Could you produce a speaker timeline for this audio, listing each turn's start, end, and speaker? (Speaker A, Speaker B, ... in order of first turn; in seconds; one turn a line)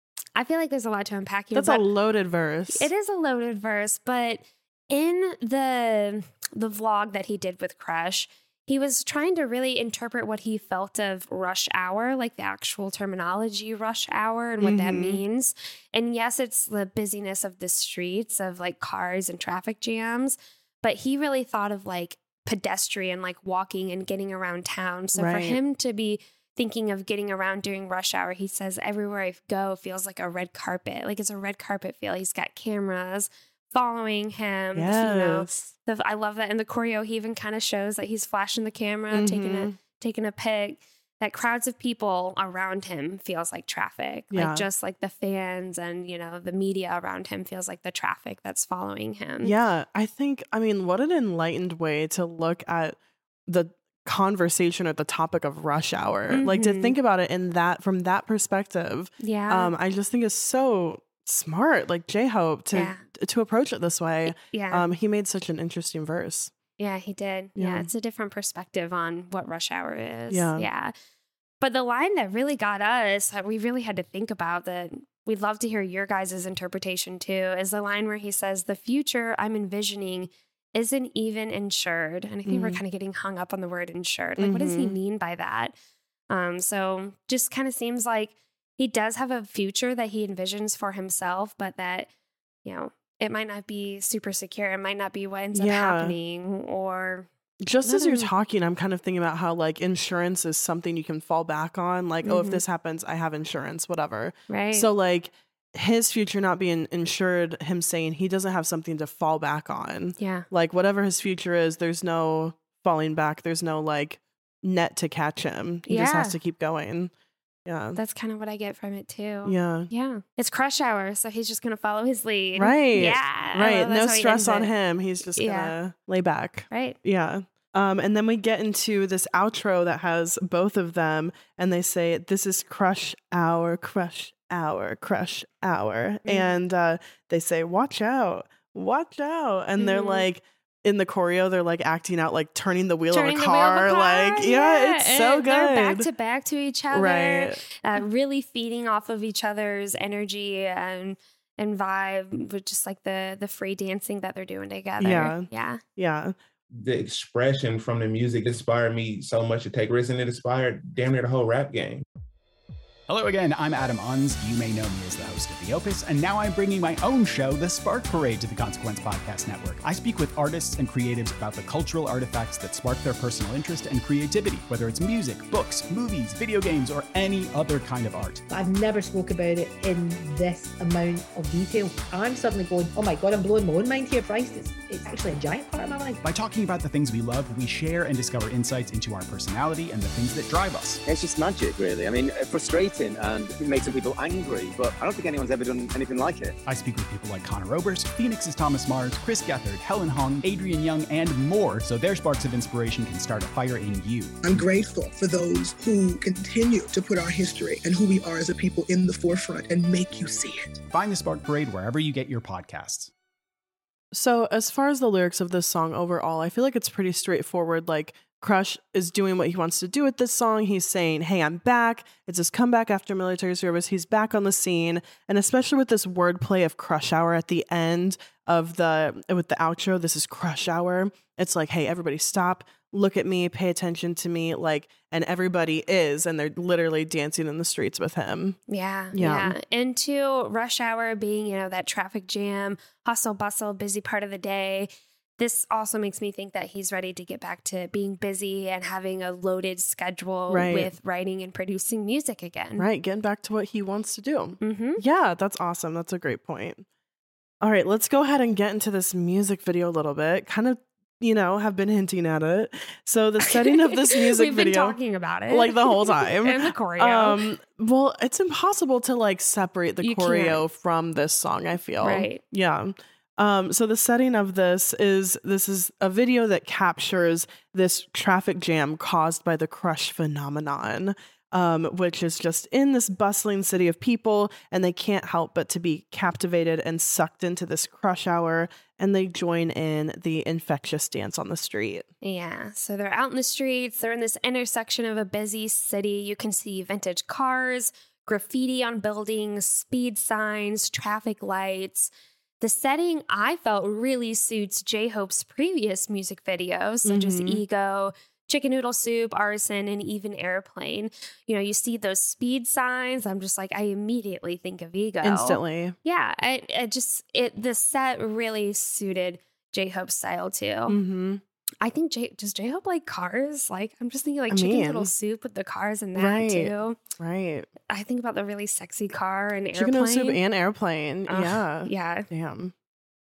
Speaker A: 0.3-1.8
Speaker B: 1.5-2.9
Speaker A: 2.7-49.5
Speaker B: 14.6-15.2
Speaker B: 25.1-25.6
Speaker B: 34.8-35.5
Speaker B: 39.1-39.8
Speaker B: 44.3-44.6
Speaker B: 49.4-66.5
Speaker A: 56.3-56.9
Speaker A: 59.2-59.7
Speaker A: 62.7-63.0
Speaker A: 64.2-64.8
Speaker A: 66.8-70.9
Speaker B: 67.5-67.9
Speaker B: 70.3-70.7
Speaker A: 71.6-85.7
Speaker B: 82.5-82.8
Speaker B: 84.4-85.0
Speaker A: 86.3-92.1
Speaker A: 92.6-97.3
Speaker B: 95.5-96.2
Speaker B: 97.6-117.1
Speaker A: 97.8-98.3
Speaker A: 102.2-102.6
Speaker A: 104.5-104.9
Speaker A: 110.2-110.5
Speaker A: 115.9-116.4
Speaker B: 117.7-118.0
Speaker A: 117.9-124.7
Speaker B: 119.4-119.9
Speaker B: 122.5-146.1
Speaker A: 125.3-125.7
Speaker A: 126.7-127.0
Speaker A: 136.2-136.5
Speaker A: 139.8-140.3
Speaker A: 143.1-155.8
Speaker B: 146.9-147.6
Speaker B: 155.0-156.3
Speaker C: 156.8-162.0
Speaker D: 163.1-178.4
Speaker E: 178.5-186.2
Speaker D: 186.2-191.0
Speaker F: 191.1-196.6
Speaker D: 196.7-204.4
Speaker G: 204.4-210.8
Speaker D: 210.9-213.1
Speaker B: 214.1-238.6
Speaker A: 238.7-252.9
Speaker B: 239.1-239.6
Speaker B: 250.5-250.9
Speaker B: 252.8-256.8
Speaker A: 254.6-255.0
Speaker B: 257.6-265.0
Speaker A: 263.4-267.4
Speaker B: 265.5-292.1
Speaker A: 270.0-270.6
Speaker A: 272.0-272.4
Speaker A: 292.2-302.1
Speaker A: 302.6-321.0
Speaker B: 307.1-307.6
Speaker B: 315.2-315.9
Speaker B: 320.9-321.4
Speaker A: 321.8-327.0
Speaker B: 324.5-325.1
Speaker B: 326.1-327.7
Speaker A: 327.9-330.4
Speaker B: 329.7-332.7
Speaker A: 331.3-332.3